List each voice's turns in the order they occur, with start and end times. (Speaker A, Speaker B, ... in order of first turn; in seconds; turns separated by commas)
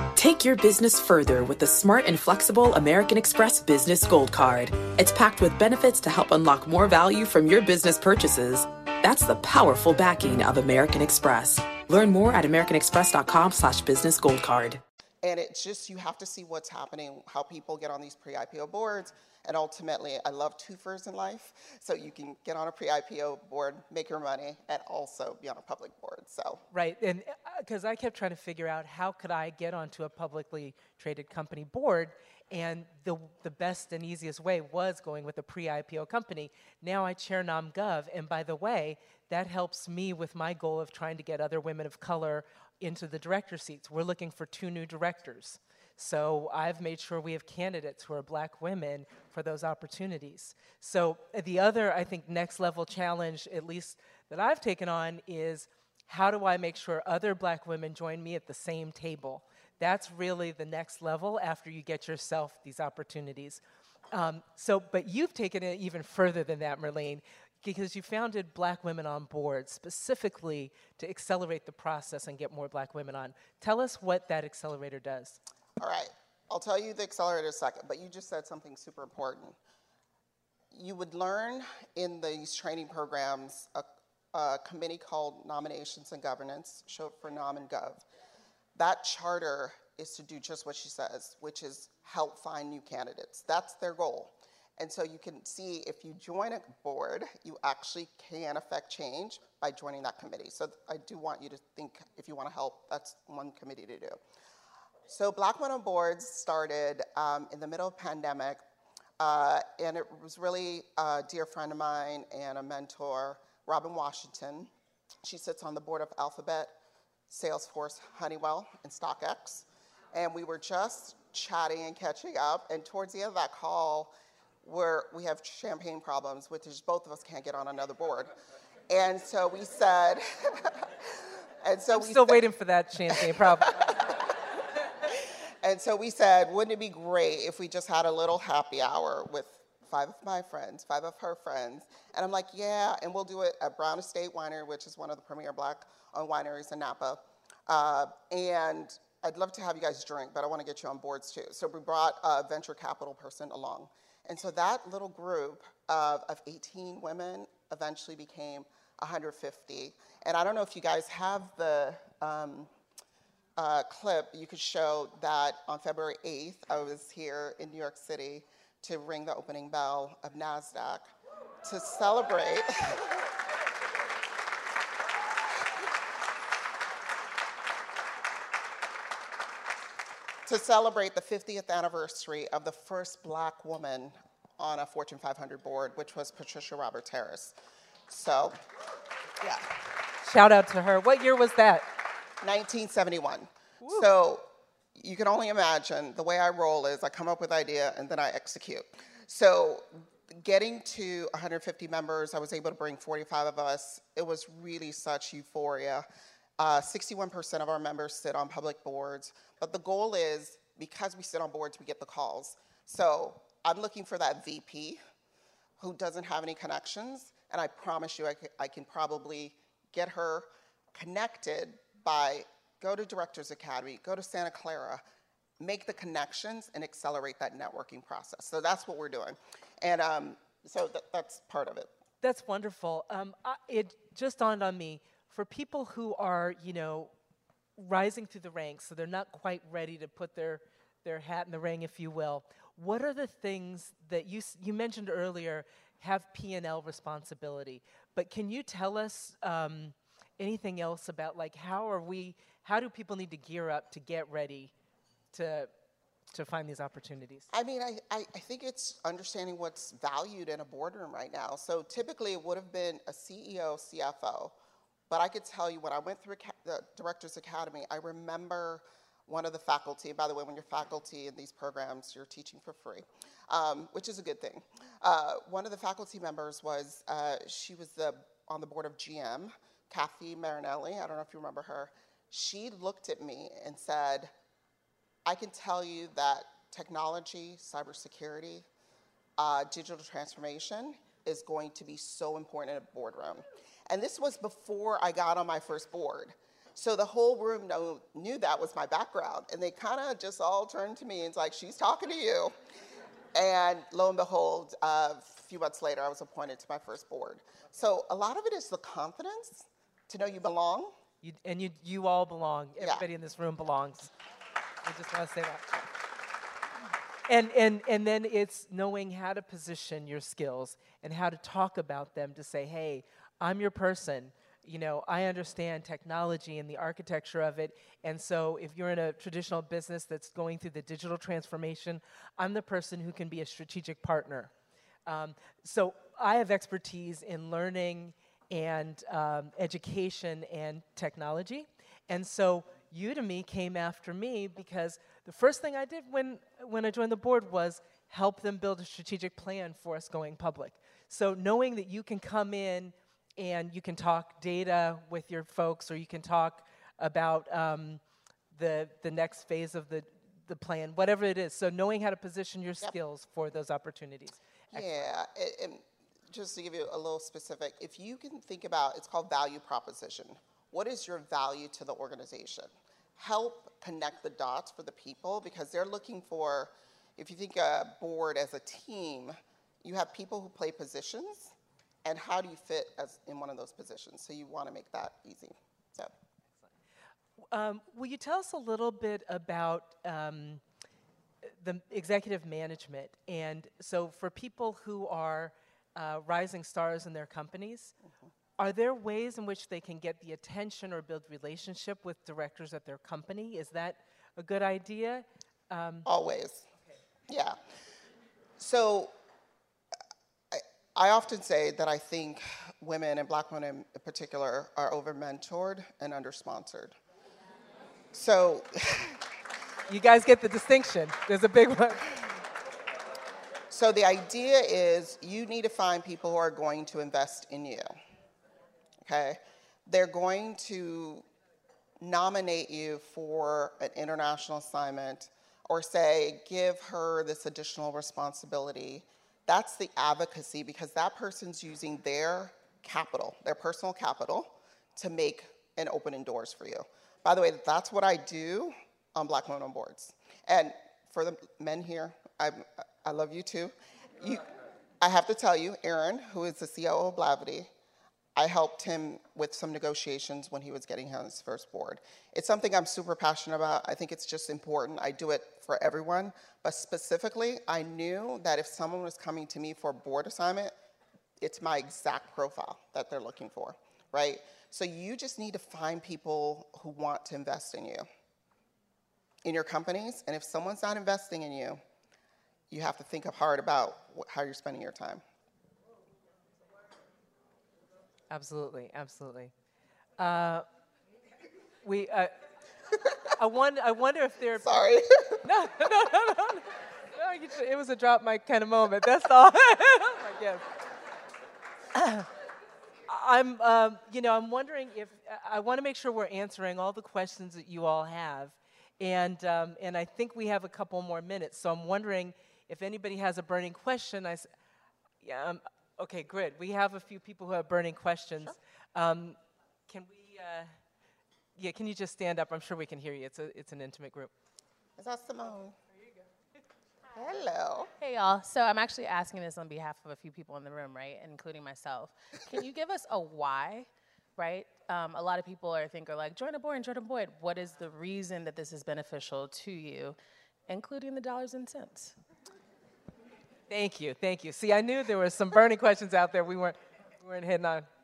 Speaker A: 0.2-14.8, Speaker B: 15.2-26.6, Speaker C: 26.7-75.4, Speaker B: 75.8-79.6, Speaker B: 80.7-88.0, Speaker B: 88.8-104.2, Speaker B: 105.1-108.6, Speaker B: 109.2-114.7, Speaker B: 115.2-116.7, Speaker B: 117.3-128.3, Speaker B: 128.9-132.4, Speaker C: 131.9-133.9, Speaker B: 133.1-134.2, Speaker B: 135.1-162.7, Speaker B: 163.6-171.1, Speaker B: 171.6-173.2, Speaker B: 180.5-187.6, Speaker B: 188.1-188.6, Speaker C: 190.2-191.9, Speaker B: 192.4-206.1, Speaker B: 206.6-215.0, Speaker B: 215.8-225.0, Speaker B: 225.6-231.9, Speaker C: 232.2-237.1, Speaker C: 237.8-254.7, Speaker C: 255.3-255.7, Speaker C: 256.3-257.5, Speaker B: 257.5-264.6, Speaker B: 265.1-284.3, Speaker B: 285.3-288.7, Speaker B: 289.4-302.5, Speaker B: 303.3-310.9, Speaker C: 311.2-314.1, Speaker B: 312.8-313.1, Speaker C: 314.9-315.9, Speaker C: 317.3-334.5, Speaker C: 335.1-358.0, Speaker C: 358.5-365.1, Speaker B: 364.7-381.5, Speaker B: 382.1-386.1, Speaker C: 387.5-390.6, Speaker C: 391.6-397.9, Speaker C: 398.6-406.1, Speaker B: 406.1-406.7, Speaker B: 407.3-407.6, Speaker B: 408.6-409.1, Speaker B: 410.5-417.0, Speaker B: 418.1-419.2, Speaker C: 419.9-422.2, Speaker B: 423.7-427.9, Speaker B: 429.0-431.2, Speaker B: 432.0-454.4, Speaker B: 455.0-457.7, Speaker B: 458.4-470.7, Speaker B: 471.4-478.1, Speaker B: 479.4-481.8, Speaker B: 482.7-485.2, Speaker C: 488.3-489.5, Speaker C: 490.2-490.6, Speaker C: 491.8-492.3, Speaker C: 493.4-494.8, Speaker B: 494.6-495.4, Speaker C: 495.4-500.6, Speaker C: 501.9-502.3, Speaker C: 503.1-514.5, Speaker C: 515.2-520.7, Speaker C: 521.6-524.3, Speaker B: 525.0-525.8, Speaker B: 527.1-527.9, Speaker D: 528.0-542.2, Speaker C: 543.7-547.9